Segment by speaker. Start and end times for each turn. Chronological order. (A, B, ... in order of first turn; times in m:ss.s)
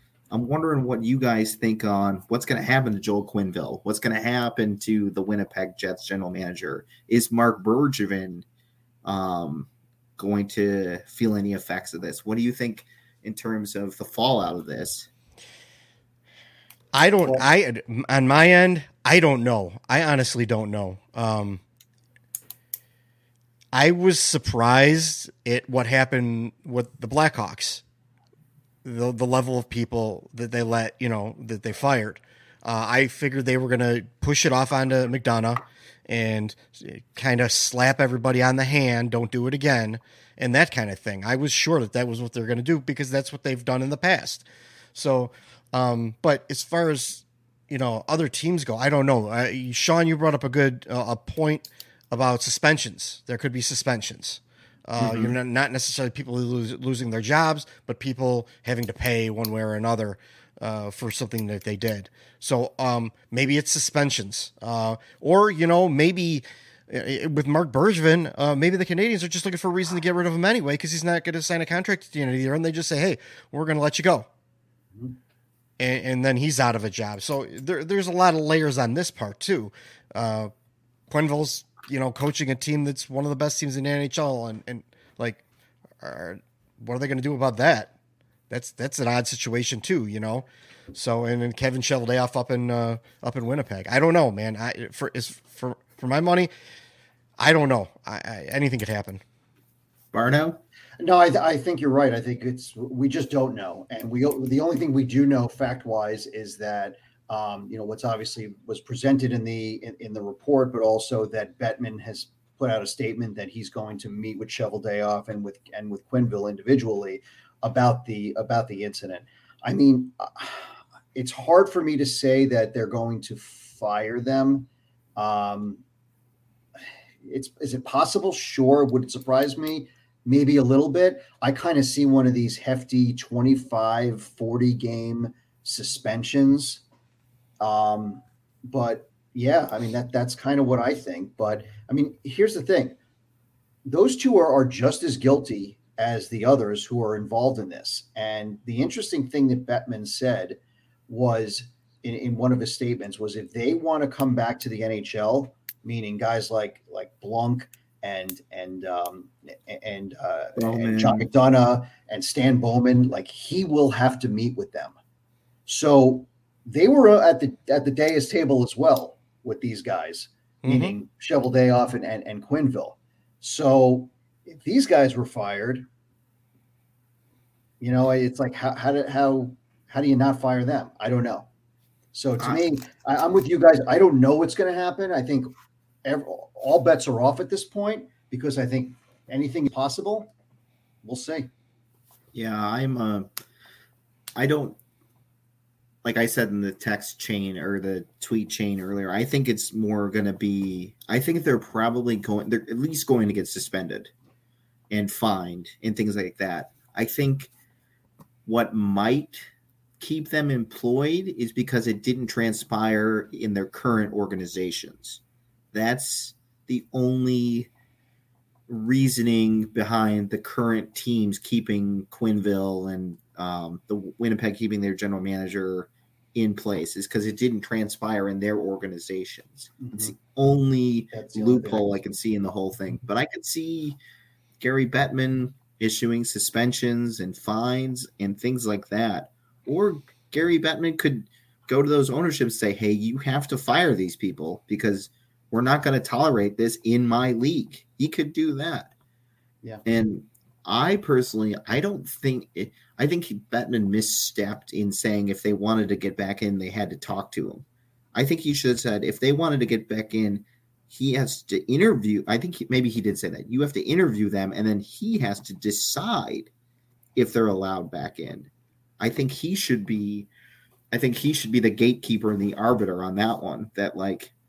0:00.3-0:08.4 A
0:09.0-0:15.1 A
0:16.9-0:21.6 B
0:23.7-0:27.8 B
0:28.8-1:14.3 B
1:15.8-1:20.5 B
1:21.1-1:25.4 B
1:26.0-1:27.9 B
1:28.5-1:36.5 B
1:37.4-1:39.2 B
1:40.1-1:40.6 A
1:41.0-2:05.8 C
2:07.2-2:16.8 C
2:17.6-2:23.0 C
2:23.8-2:45.0 C
2:40.6-2:41.3 A
2:45.7-2:55.9 C
2:50.6-2:51.0 B
2:57.8-3:01.5 C
3:02.1-3:05.5 C
3:06.0-3:10.3 C
3:11.0-3:11.5 C
3:12.3-3:13.3 A
3:14.4-3:14.8 A
3:16.0-3:24.1 A
3:24.9-3:27.5 A
3:28.5-3:29.5 A
3:30.0-3:35.2 A
3:35.7-3:37.7 A
3:38.7-3:54.0 A
3:49.8-3:50.1 C
3:51.1-3:51.9 C
3:54.6-4:08.9 A
4:09.8-4:17.6 A
4:18.2-4:26.5 A
4:27.2-4:30.3 A
4:30.9-4:34.3 A